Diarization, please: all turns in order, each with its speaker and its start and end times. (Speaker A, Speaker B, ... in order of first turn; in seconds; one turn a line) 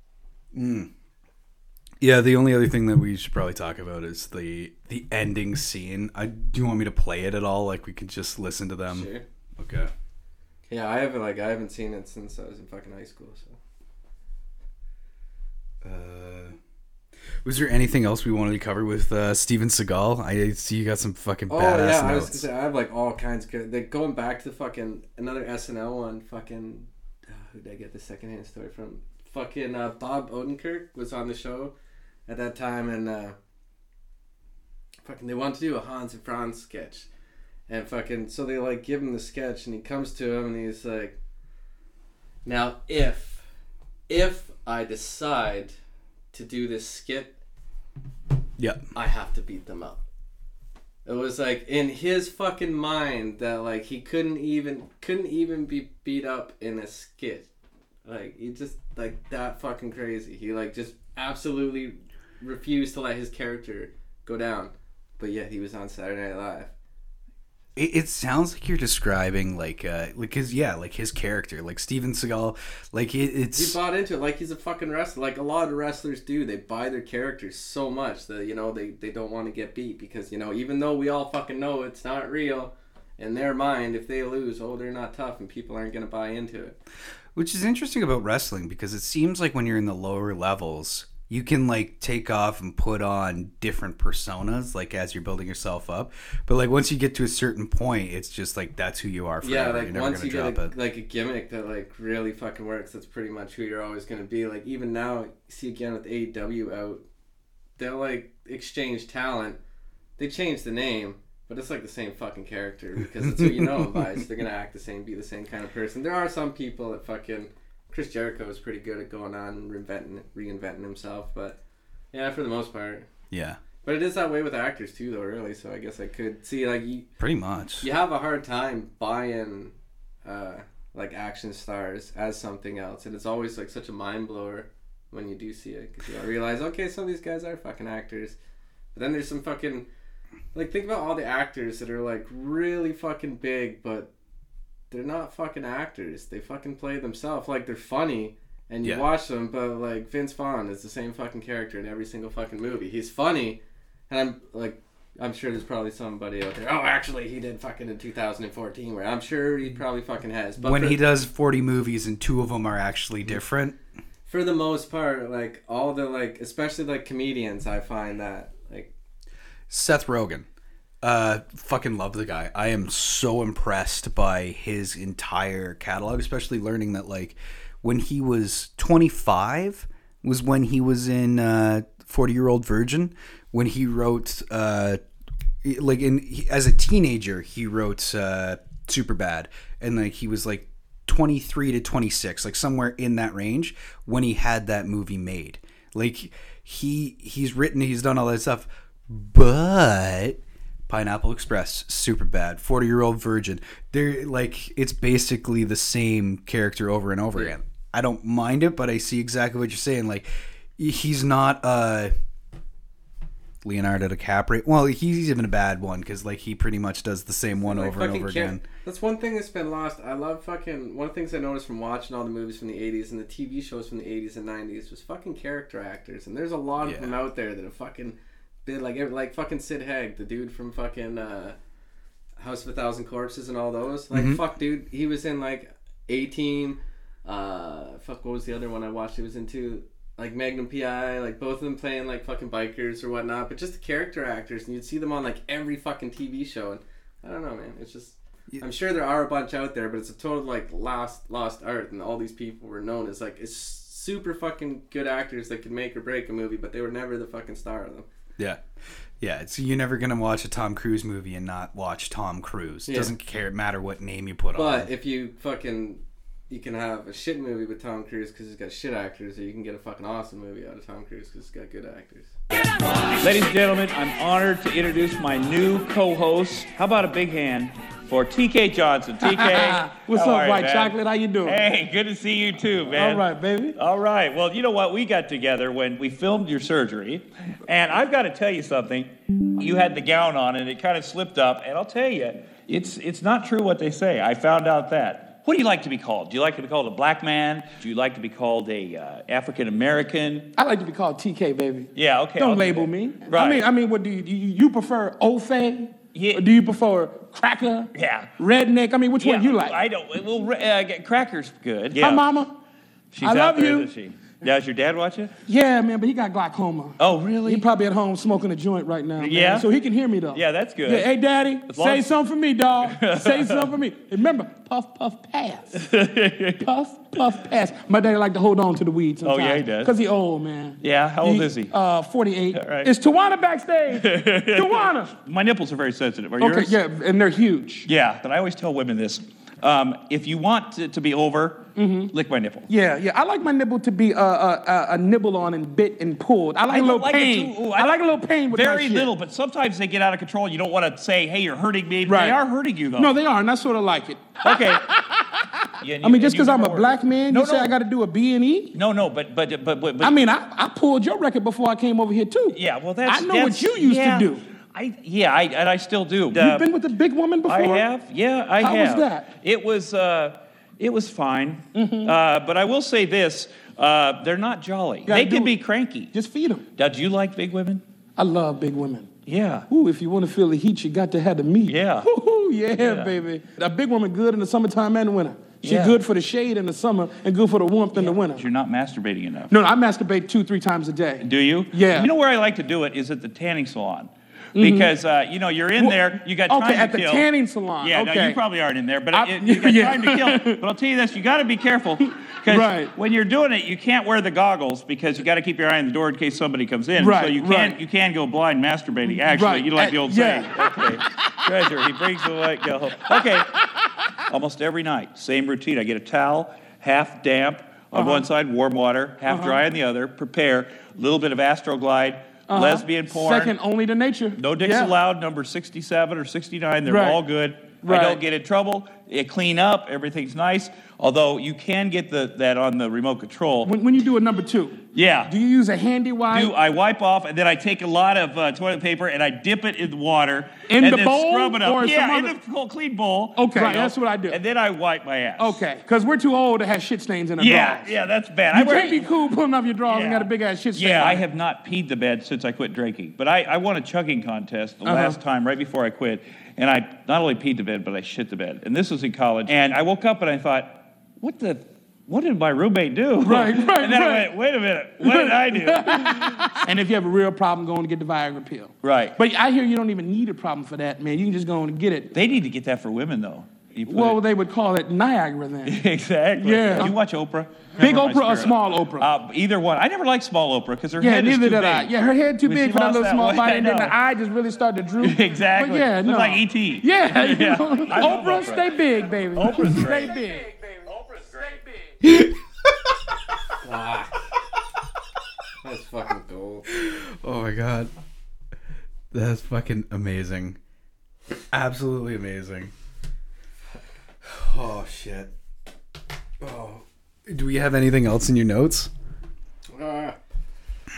Speaker A: 0.5-0.9
Speaker A: 2.0-9.9
Speaker B: 8.9-9.2
Speaker B: 10.7-13.6
Speaker A: 15.8-16.6
Speaker A: 17.4-22.4
Speaker B: 21.5-31.7
Speaker B: 32.3-33.3
Speaker B: 35.0-37.1
Speaker B: 37.7-41.1
Speaker B: 42.4-43.4
Speaker B: 44.1-45.7
Speaker B: 46.3-47.4
Speaker A: 48.6-48.8
Speaker B: 48.9-50.0
Speaker B: 51.0-57.5
Speaker B: 58.0-66.7
Speaker A: 67.8-73.8
Speaker B: 73.5-86.8
Speaker A: 87.3-100.7
Speaker B: 99.4-107.0
Speaker B: 107.8-109.6
Speaker B: 110.2-121.6
Speaker A: 113.2-114.0
Speaker B: 122.1-123.1
Speaker A: 123.3-123.6
Speaker B: 123.8-127.1
Speaker A: 127.2-127.9
Speaker B: 127.8-129.7
Speaker B: 130.2-138.3
Speaker B: 138.9-139.8
Speaker B: 140.5-144.1
Speaker B: 144.9-161.0
Speaker A: 160.6-163.8
Speaker B: 164.3-168.9
Speaker A: 169.7-170.5
Speaker A: 171.0-185.0
Speaker A: 185.6-210.2
Speaker A: 210.8-212.1
Speaker A: 213.6-218.6
Speaker B: 217.7-231.6
Speaker A: 226.8-227.2
Speaker B: 232.4-258.1
Speaker A: 234.1-234.4
Speaker A: 258.4-258.6
Speaker A: 259.2-264.9
Speaker B: 262.9-263.1
Speaker B: 264.5-272.3
Speaker C: 273.2-300.5
Speaker D: 279.2-281.6
Speaker D: 282.9-283.8
Speaker D: 300.6-309.8
Speaker C: 301.9-303.6
Speaker C: 306.1-306.5
Speaker C: 307.9-308.3
Speaker C: 309.2-312.3
Speaker D: 311.9-312.6
Speaker C: 313.1-315.3
Speaker D: 313.2-313.9
Speaker D: 315.4-325.7
Speaker C: 317.0-317.6
Speaker C: 319.2-319.7
Speaker C: 320.3-321.1
Speaker C: 321.7-322.1
Speaker C: 322.8-323.7
Speaker C: 325.7-326.6
Speaker D: 326.6-335.1
Speaker C: 329.2-329.9
Speaker C: 330.8-331.7
Speaker C: 332.5-332.9
Speaker C: 333.9-336.8
Speaker D: 336.4-337.9
Speaker C: 337.9-342.7
Speaker D: 341.8-342.1
Speaker D: 342.7-349.1
Speaker C: 346.7-353.1
Speaker D: 352.1-352.4
Speaker D: 353.0-355.4
Speaker C: 354.4-354.8
Speaker C: 355.8-357.7
Speaker D: 356.0-358.8
Speaker C: 358.7-360.2
Speaker D: 360.0-364.4
Speaker C: 362.5-366.7
Speaker D: 366.3-367.9
Speaker C: 367.4-376.1
Speaker D: 368.6-369.3
Speaker D: 371.8-372.1
Speaker D: 375.1-375.5
Speaker D: 376.1-376.6
Speaker C: 376.8-377.8
Speaker D: 378.2-379.1
Speaker C: 379.2-379.6
Speaker D: 379.7-388.4
Speaker C: 381.6-382.1
Speaker C: 382.8-383.1
Speaker C: 385.6-386.0
Speaker C: 387.9-389.5
Speaker D: 389.5-392.1
Speaker C: 391.2-397.3
Speaker D: 394.6-394.9
Speaker D: 395.8-398.4
Speaker C: 397.8-413.5
Speaker D: 399.1-400.6
Speaker D: 402.5-402.9
Speaker D: 407.0-407.8
Speaker D: 409.1-410.8
Speaker C: 414.3-423.5
Speaker D: 417.9-418.2
Speaker D: 419.3-419.6
Speaker D: 422.5-424.9
Speaker C: 424.4-433.7
Speaker D: 426.8-427.2
Speaker D: 427.8-428.2
Speaker D: 433.6-436.6
Speaker C: 434.9-435.3
Speaker C: 436.3-445.6
Speaker D: 440.7-442.3
Speaker D: 443.4-444.4
Speaker D: 445.4-447.9
Speaker C: 447.4-449.1
Speaker D: 448.5-451.2
Speaker C: 449.9-466.6
Speaker D: 454.9-455.2
Speaker D: 463.2-464.3
Speaker D: 465.0-472.1
Speaker C: 468.8-469.1
Speaker C: 472.1-474.2
Speaker D: 473.9-475.8
Speaker C: 475.6-481.9
Speaker D: 476.4-477.0
Speaker D: 477.7-479.1
Speaker D: 481.0-491.6
Speaker C: 482.4-483.9
Speaker C: 485.0-490.2
Speaker A: 492.0-492.9
Speaker B: 493.6-494.2
Speaker B: 495.6-496.7
Speaker A: 496.7-497.9
Speaker A: 499.1-500.6
Speaker A: 501.5-502.7
Speaker A: 504.2-505.3
Speaker A: 506.4-508.9
Speaker B: 509.7-510.2